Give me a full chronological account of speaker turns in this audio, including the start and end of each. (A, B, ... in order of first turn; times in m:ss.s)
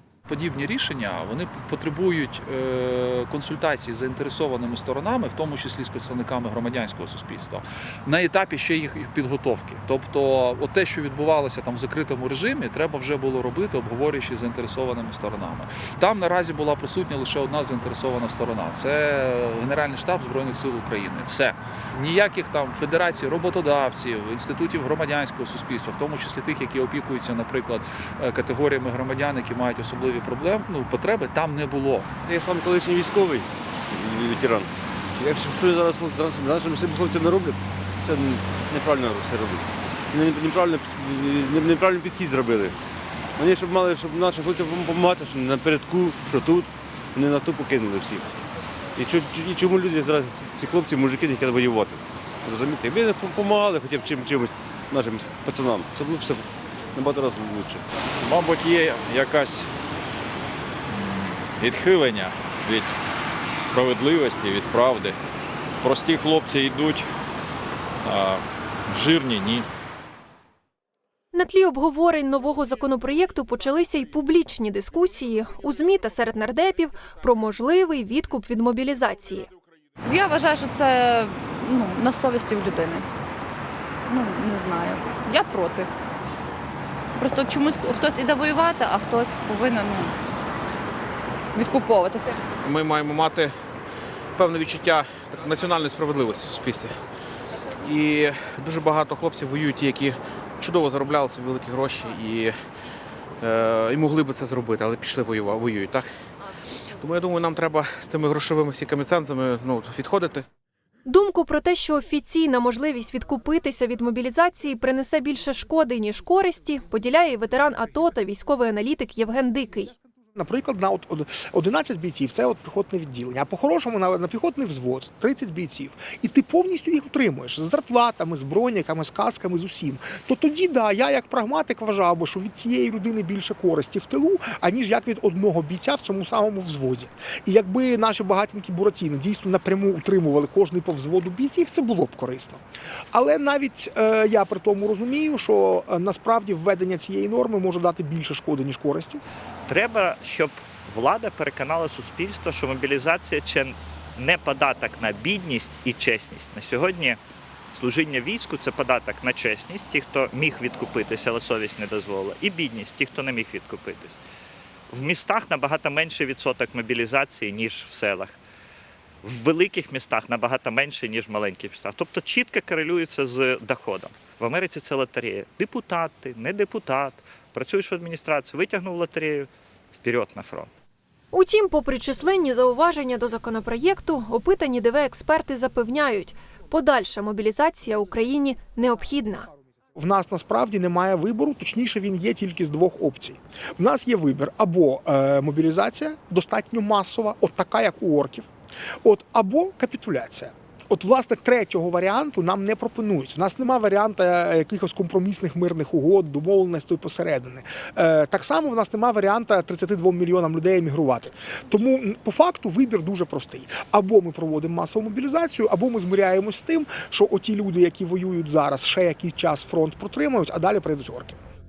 0:00.3-0:32.1 A
0:32.3-0:42.7 B
0:43.4-0:48.2 B
0:49.0-0:57.8 B
0:58.2-0:59.7 C
1:00.9-1:02.9 C
1:03.6-1:05.2 C
1:05.8-1:07.1 C
1:08.0-1:09.7 C
1:11.3-1:19.5 D
1:20.0-1:23.0 E
1:24.1-1:25.9 E
1:27.1-1:30.1 E
1:31.5-1:32.4 E
1:32.6-1:33.5 F
1:34.4-1:37.0 F
1:37.7-1:42.6 F
1:43.4-1:46.0 F
1:46.9-1:50.4 F
1:51.0-1:59.9 D
2:00.4-2:22.6 G
2:23.1-2:29.2 G
2:29.7-2:37.2 H
2:37.7-2:44.2 H
2:44.9-2:48.4 H
2:49.2-3:00.7 H
3:01.3-3:09.5 D
3:10.0-3:18.5 G
3:19.0-3:41.4 G